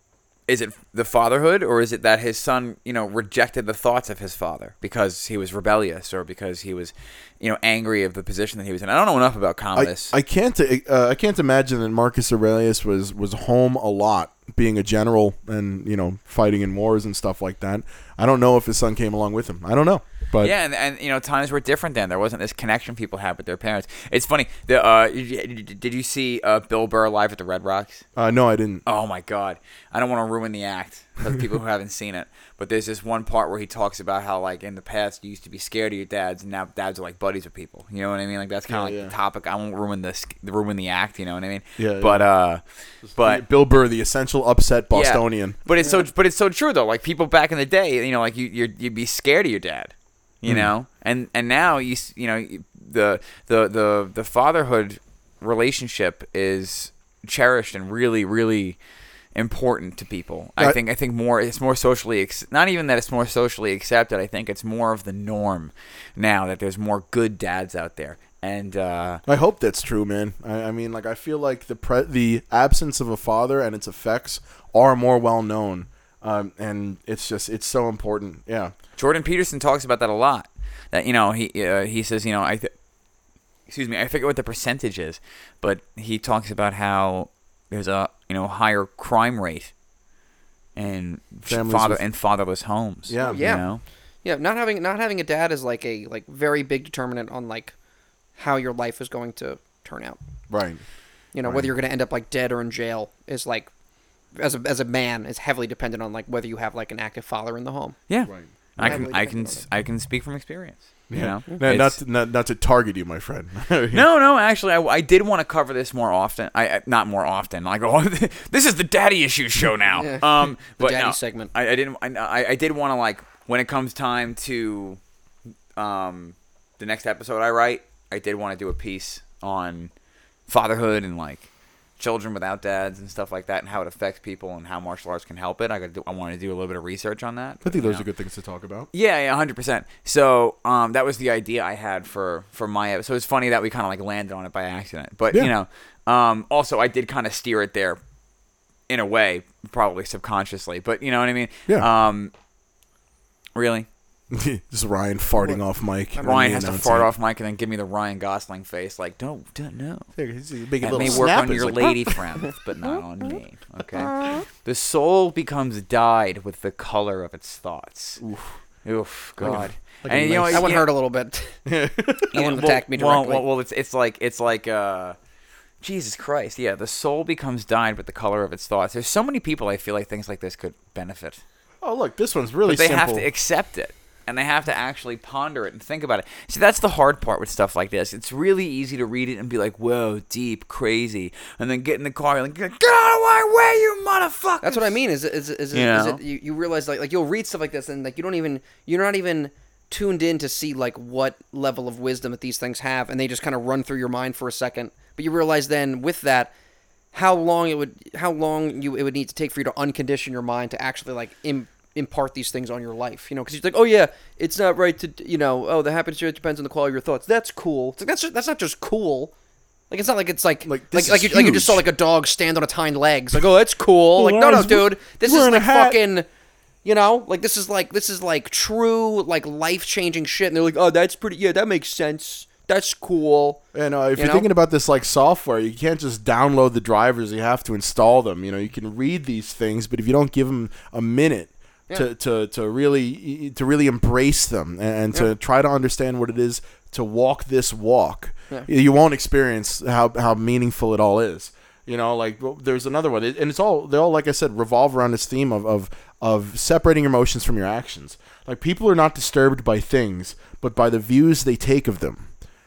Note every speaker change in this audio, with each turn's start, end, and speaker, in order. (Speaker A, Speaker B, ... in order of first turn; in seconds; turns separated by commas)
Speaker A: 0.5-10.1, Speaker B: 9.8-20.5, Speaker A: 20.4-28.0, Speaker B: 28.1-28.8, Speaker A: 28.9-42.6, Speaker B: 38.7-39.1, Speaker B: 41.8-42.3, Speaker B: 43.0-45.6, Speaker A: 43.1-43.4, Speaker A: 44.9-58.8, Speaker A: 59.3-69.2, Speaker B: 69.2-78.7, Speaker A: 79.0-82.7, Speaker A: 83.7-89.7, Speaker A: 90.8-93.8, Speaker B: 91.5-92.0, Speaker B: 93.1-93.6, Speaker C: 93.2-93.7, Speaker C: 94.2-97.7, Speaker C: 98.3-100.2, Speaker B: 100.5-100.8, Speaker C: 101.3-103.7, Speaker B: 101.4-101.7, Speaker C: 104.3-108.0, Speaker A: 108.1-112.0, Speaker B: 108.3-109.0, Speaker C: 108.8-109.6, Speaker B: 111.1-114.0, Speaker A: 113.9-125.0, Speaker C: 119.9-121.5, Speaker A: 125.8-129.9, Speaker A: 130.5-138.1, Speaker B: 137.6-138.9, Speaker A: 138.9-148.0, Speaker A: 148.9-152.3, Speaker A: 153.6-153.9, Speaker B: 154.3-157.1, Speaker A: 156.2-160.1, Speaker B: 160.2-162.0, Speaker A: 160.8-168.2, Speaker C: 164.0-164.4, Speaker B: 168.2-168.5, Speaker A: 168.8-170.9, Speaker B: 169.4-170.7, Speaker C: 170.5-171.6, Speaker B: 171.7-172.3, Speaker C: 172.3-173.4, Speaker A: 172.3-175.2, Speaker A: 175.8-181.4, Speaker B: 181.8-183.3, Speaker A: 182.7-194.9, Speaker C: 194.6-206.5, Speaker A: 195.7-196.2, Speaker C: 207.1-219.3, Speaker C: 219.9-226.2, Speaker B: 220.6-221.8, Speaker B: 224.2-226.0, Speaker C: 226.8-233.6, Speaker B: 233.7-262.3, Speaker C: 234.2-234.5